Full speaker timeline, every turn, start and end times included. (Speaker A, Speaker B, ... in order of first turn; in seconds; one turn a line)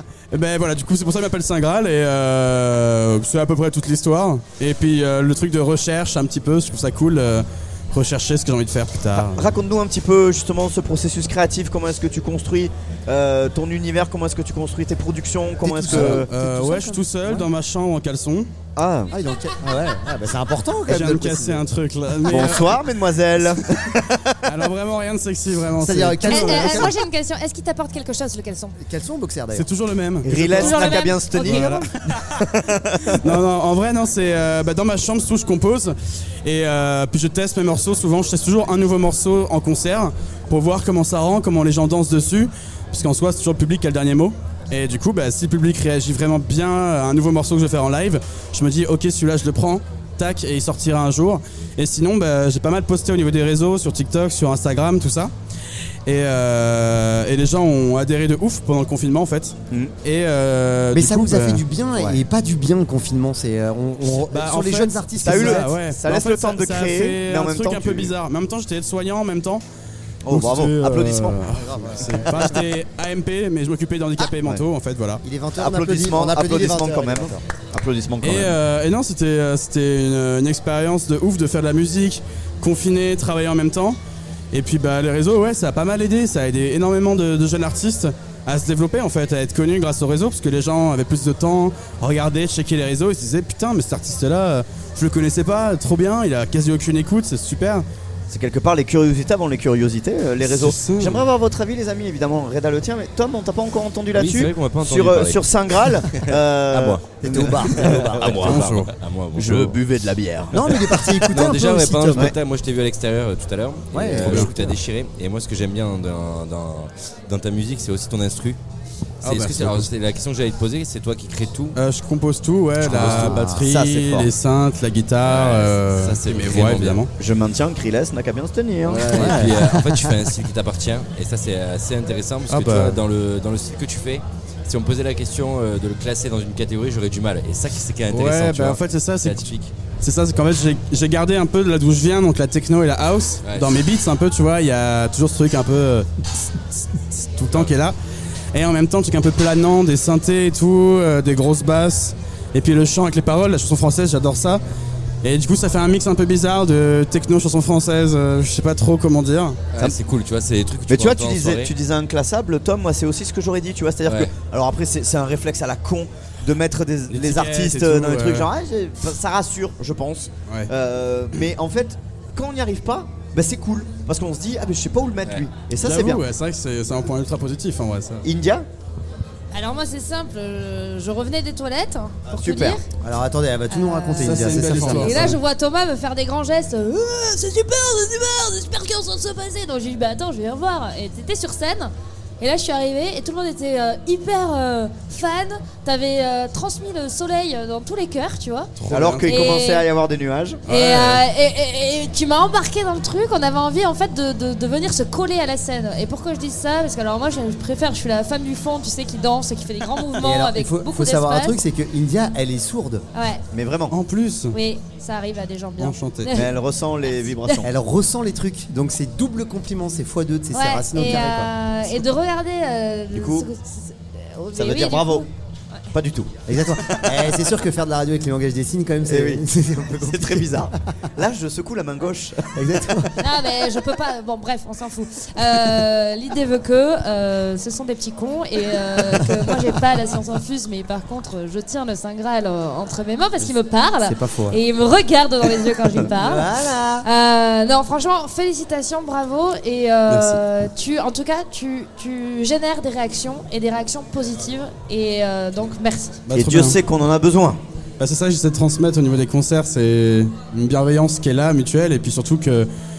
Speaker A: 0.3-9.6
Speaker B: 9.3-16.3
Speaker C: 15.6-17.5
Speaker A: 15.9-18.5
Speaker B: 18.8-19.1
Speaker C: 19.1-21.6
Speaker A: 20.9-22.8
Speaker B: 22.2-24.5
Speaker A: 24.5-26.9
Speaker C: 25.8-26.9
Speaker D: 26.3-28.7
Speaker C: 28.8-29.7
Speaker A: 29.5-31.9
Speaker B: 30.2-33.2
Speaker D: 30.5-31.9
Speaker A: 33.1-55.3
Speaker A: 56.0-61.6
Speaker C: 60.9-65.7
Speaker B: 62.0-62.2
Speaker A: 64.3-69.6
Speaker B: 65.2-68.1
Speaker B: 70.2-71.4
Speaker A: 70.3-75.2
Speaker C: 71.6-72.6
Speaker C: 75.2-77.4
Speaker B: 75.6-78.6
Speaker A: 78.2-84.0
Speaker A: 84.5-97.8
Speaker B: 98.3-108.7
Speaker A: 100.4-101.3
Speaker E: 104.1-107.0
Speaker C: 107.2-108.4
Speaker E: 107.8-109.8
Speaker A: 108.4-108.9
Speaker B: 109.3-111.2
Speaker C: 110.5-112.3
Speaker E: 111.3-118.6
Speaker C: 113.9-114.8
Speaker A: 114.2-114.5
Speaker A: 119.2-119.9
Speaker E: 119.2-121.8
Speaker A: 121.7-127.1
Speaker C: 122.8-123.7
Speaker B: 122.9-124.3
Speaker E: 125.2-127.0
Speaker B: 127.2-129.2
Speaker E: 128.8-139.7
Speaker C: 128.9-130.2
Speaker A: 132.5-133.0
Speaker A: 138.1-147.9
Speaker E: 143.4-143.8
Speaker A: 148.5-154.6
Speaker A: 155.2-159.6
Speaker E: 159.7-161.7
Speaker B: 160.9-176.2
Speaker E: 164.1-164.3
Speaker A: 167.1-168.5
Speaker A: 175.8-178.2
Speaker B: 178.2-178.7
Speaker D: 179.5-182.8
Speaker B: 182.3-182.8
Speaker C: 183.0-185.3
Speaker D: 183.7-198.7
Speaker A: 184.2-185.4
Speaker A: 198.8-199.6
Speaker B: 198.9-200.6
Speaker D: 199.2-199.9
Speaker A: 200.7-201.2
Speaker D: 200.7-211.6
Speaker C: 210.2-213.0
Speaker D: 213.1-213.4
Speaker B: 213.5-214.0
Speaker A: 213.9-214.6
Speaker D: 214.5-216.6
Speaker A: 215.8-216.4
Speaker B: 216.3-217.7
Speaker D: 217.1-217.6
Speaker C: 217.6-221.5
Speaker D: 220.5-225.2
Speaker B: 223.1-223.5
Speaker B: 224.5-225.2
Speaker B: 225.9-227.3
Speaker C: 226.5-230.7
Speaker B: 229.0-229.4
Speaker B: 230.0-232.6
Speaker C: 232.6-233.2
Speaker D: 233.2-256.2
Speaker C: 244.0-244.6
Speaker C: 246.1-247.1
Speaker A: 250.1-250.4
Speaker A: 256.3-256.8
Speaker B: 256.3-257.6
Speaker A: 258.0-262.7